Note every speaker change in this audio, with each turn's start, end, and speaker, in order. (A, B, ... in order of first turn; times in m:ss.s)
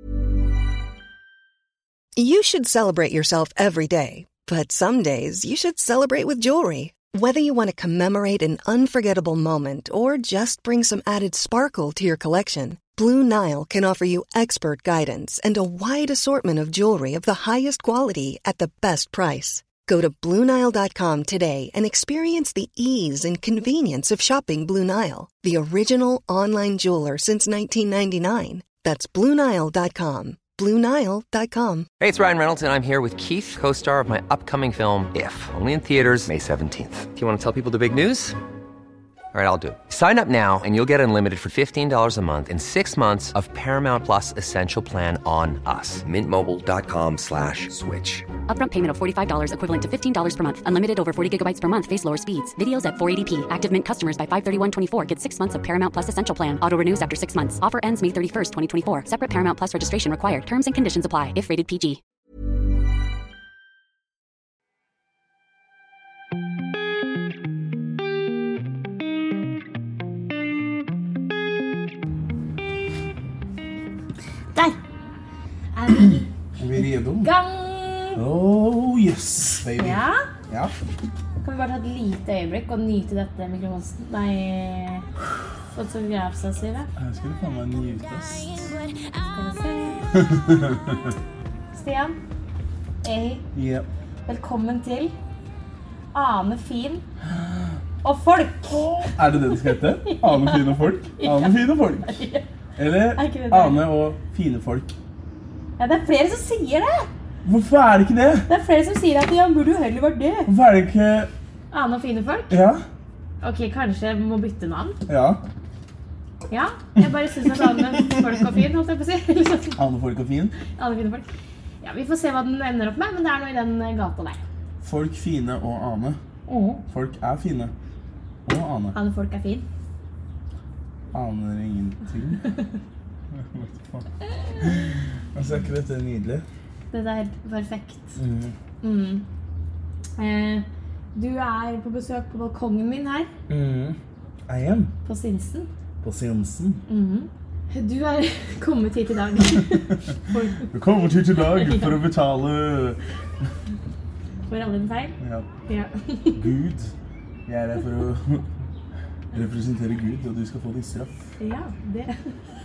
0:02.2-0:31.9 A
0:32.0-0:38.3 B
0:39.3-0:48.2 B
0:48.6-1:01.8 C
1:15.7-1:16.2 D
1:16.6-1:17.3 E
1:17.2-1:18.2 D
1:18.1-1:20.7 E
1:19.8-1:20.2 D
1:21.4-1:25.1 D
1:25.7-1:26.9 D
1:27.0-1:28.7 E
1:29.3-1:30.1 D
1:30.3-1:30.9 E
1:31.7-1:32.2 D
1:33.0-1:33.4 D
1:33.5-1:33.8 E
1:34.2-1:35.1 D
1:36.1-1:37.0 D
1:37.3-1:37.7 E
1:38.0-1:42.4 D
1:39.0-1:42.2 E
1:42.8-1:44.9 E
1:43.2-1:43.9 D
1:45.8-1:47.1 D
1:47.4-1:48.5 E
1:48.5-1:50.5 D
1:50.4-1:51.3 E
1:51.7-1:52.6 D
1:52.5-1:52.8 E
1:53.4-1:55.0 D
1:55.1-1:55.4 E
1:56.5-1:59.8 D
1:59.8-2:00.5 E
2:00.7-2:01.2 D
2:01.8-2:04.4 D
2:04.8-2:06.2 E
2:06.5-2:06.8 D
2:06.9-2:07.7 E
2:08.4-2:09.0 E
2:08.9-2:09.6 D
2:11.1-2:12.4 E
2:13.3-2:14.0 E
2:14.6-2:16.4 E
2:16.9-2:18.1 D
2:18.2-2:18.5 E
2:18.8-2:19.2 D
2:20.2-2:23.3 D
2:23.5-2:24.0 E
2:24.5-2:24.9 E
2:25.0-2:25.7 D
2:26.0-2:26.8 E
2:26.9-2:30.7 D
2:30.7-2:33.0 E
2:31.5-2:31.9 D
2:34.5-2:35.2 D
2:35.2-2:35.5 E
2:35.7-2:36.5 D
2:36.3-2:36.9 E
2:37.5-2:38.5 E
2:39.3-2:41.1 E
2:41.4-2:42.3 D